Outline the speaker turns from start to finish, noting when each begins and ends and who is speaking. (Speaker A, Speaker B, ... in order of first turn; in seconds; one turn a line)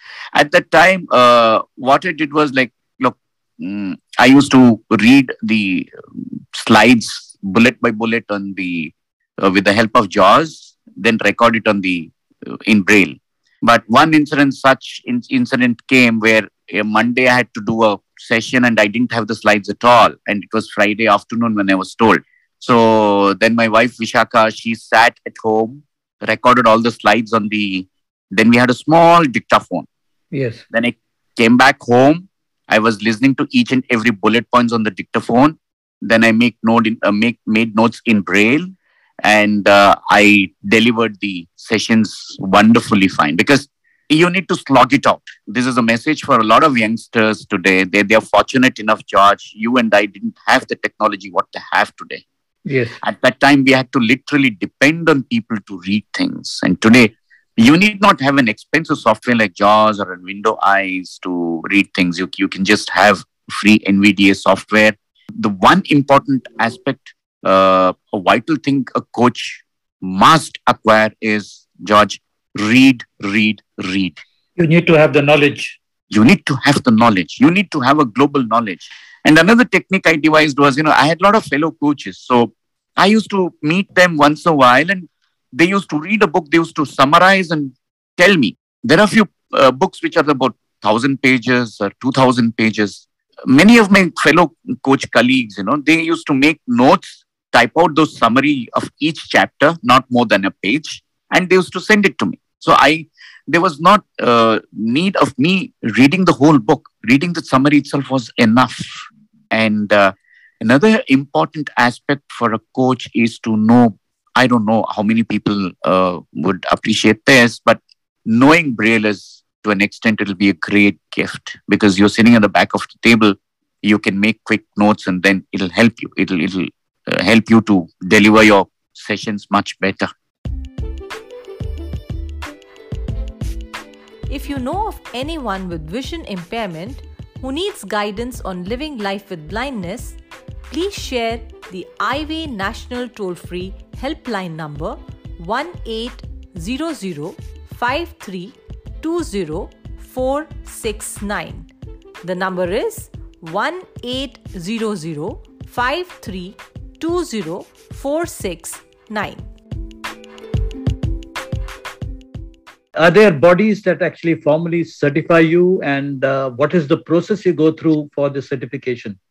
Speaker A: 0.3-29.9
Speaker B: 30.3-30.6
Speaker A: 30.7-52.2
Speaker B: 52.6-53.0
Speaker A: 53.0-74.2
Speaker B: 74.6-75.8
Speaker A: 76.1-130.1
Speaker C: 134.3-140.2
Speaker C: 140.7-151.7
Speaker C: 152.2-159.5
Speaker B: 162.9-169.2